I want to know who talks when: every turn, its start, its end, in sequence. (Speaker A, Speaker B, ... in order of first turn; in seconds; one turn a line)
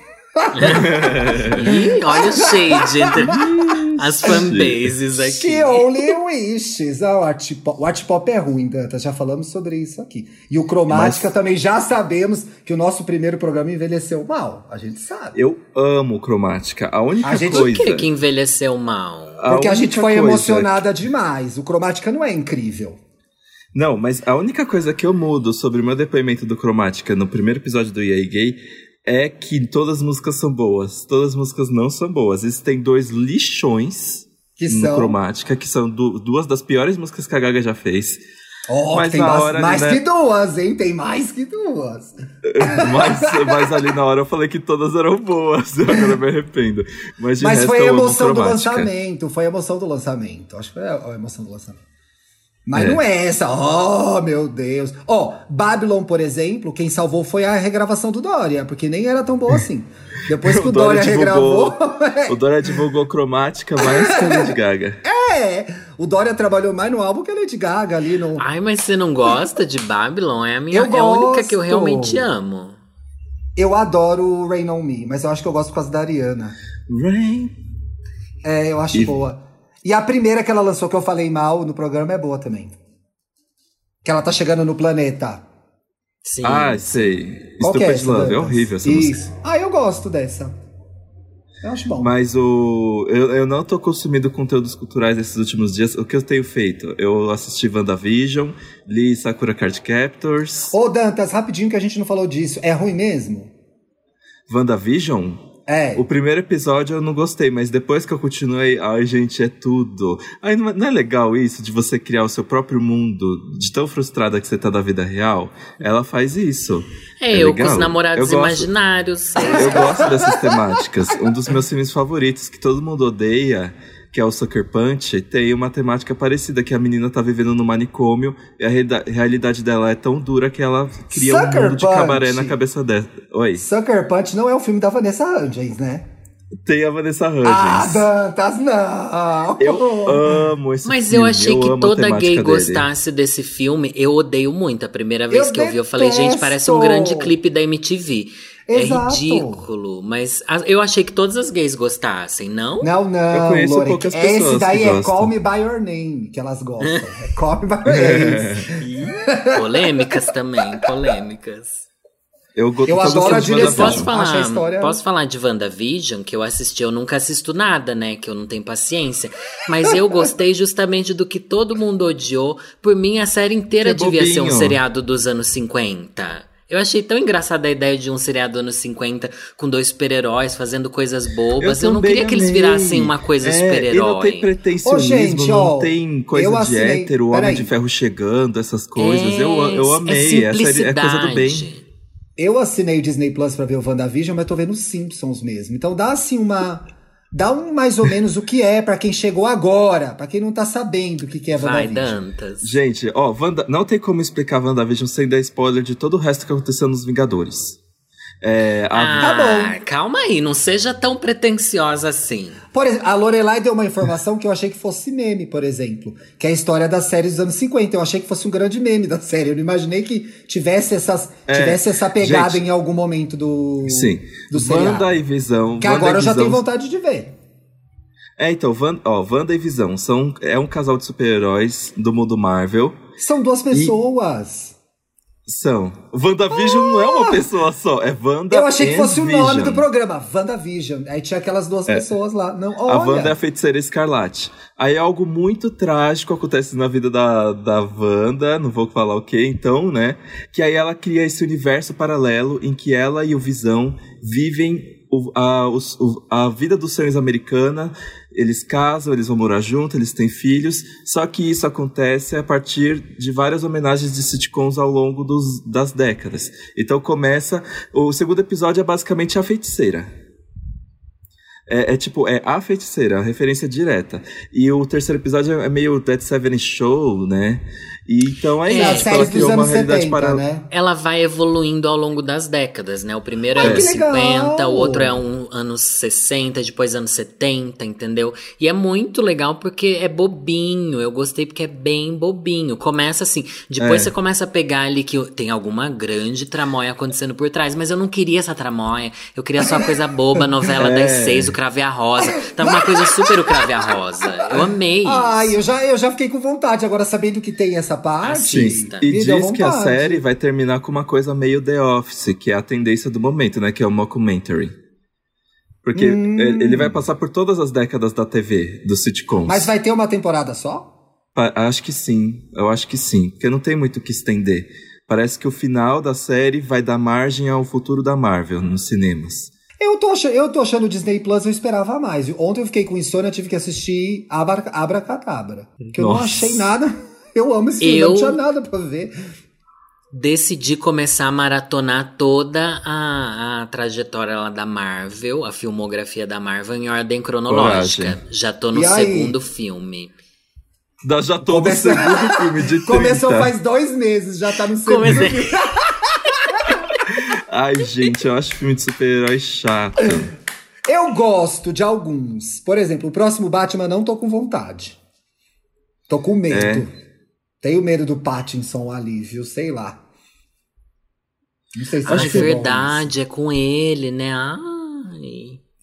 Speaker A: 0.3-3.7
Speaker B: 0.7-1.6
Speaker C: 1.5-6.0
Speaker B: 3.1-4.9
Speaker A: 5.2-15.4
Speaker B: 10.9-11.3
Speaker B: 15.3-18.1
Speaker A: 17.2-17.9
Speaker C: 17.4-19.5
Speaker B: 19.4-20.8
Speaker A: 19.5-23.0
Speaker B: 23.7-38.2
Speaker A: 34.6-35.2
Speaker A: 38.7-43.8
Speaker B: 38.9-40.0
Speaker B: 42.4-48.9
Speaker A: 45.9-46.2
Speaker A: 47.4-51.8
Speaker A: 52.7-62.4
Speaker B: 52.7-53.0
Speaker B: 60.3-65.0
Speaker A: 63.8-68.4
Speaker C: 68.4-72.8
Speaker A: 70.7-72.2
Speaker A: 73.5-76.5
Speaker B: 76.9-77.5
Speaker A: 78.4-82.8
Speaker A: 84.0-85.4
Speaker C: 86.2-87.2
Speaker B: 86.4-89.2
Speaker A: 87.6-90.5
Speaker A: 91.6-92.1
Speaker B: 92.0-100.7
Speaker A: 100.7-103.5
Speaker B: 104.5-118.7
Speaker A: 105.7-106.0
Speaker C: 117.2-120.2
Speaker B: 119.5-133.6
Speaker A: 119.5-120.6
Speaker A: 131.1-132.6
Speaker A: 133.6-136.1
Speaker B: 136.6-138.1
Speaker A: 137.4-140.5
Speaker B: 139.6-142.9
Speaker C: 140.8-152.9
Speaker A: 145.3-147.3
Speaker A: 148.7-149.7
Speaker A: 152.8-160.1
Speaker B: 153.3-155.3
Speaker C: 156.8-157.1
Speaker B: 157.8-158.7
Speaker C: 158.8-161.9
Speaker B: 162.6-164.1
Speaker A: 162.8-165.0
Speaker C: 163.1-184.5
Speaker B: 173.8-174.8
Speaker B: 181.6-191.7
Speaker A: 184.8-187.7
Speaker C: 189.0-191.8
Speaker A: 192.4-202.2
Speaker C: 201.5-202.8
Speaker B: 202.6-207.8
Speaker B: 208.4-209.3
Speaker C: 208.9-212.6
Speaker A: 209.2-209.8
Speaker A: 212.7-225.1
Speaker B: 221.5-222.6
Speaker B: 223.8-226.6
Speaker A: 225.8-227.3
Speaker B: 228.4-233.0
Speaker A: 233.2-234.8
Speaker B: 235.4-239.8
Speaker A: 236.5-237.4
Speaker A: 238.5-243.3
Speaker B: 242.9-270.1
Speaker B: 271.7-280.4
Speaker C: 278.6-279.5
Speaker A: 278.7-280.7
Speaker C: 280.7-305.6
Speaker A: 283.5-285.2
Speaker B: 283.6-283.9
Speaker B: 293.8-294.1
Speaker B: 300.7-301.5
Speaker A: 302.2-303.7
Speaker A: 304.5-310.2
Speaker C: 308.2-309.0
Speaker B: 308.5-314.7
Speaker B: 315.8-319.7
Speaker A: 315.9-317.0
Speaker A: 319.4-320.9
Speaker B: 321.3-329.5
Speaker A: 329.8-339.1
Speaker B: 335.9-336.6
Speaker C: 337.8-338.4
Speaker C: 340.1-350.1
Speaker B: 347.5-348.2
Speaker A: 348.7-349.4
Speaker B: 351.0-353.5
Speaker A: 351.4-356.8
Speaker C: 354.8-355.6
Speaker B: 357.1-360.3
Speaker A: 360.9-365.0
Speaker A: 366.1-366.9
Speaker B: 366.5-366.9
Speaker A: 367.6-370.0
Speaker A: 371.7-373.1
Speaker B: 372.1-372.5
Speaker C: 372.1-375.6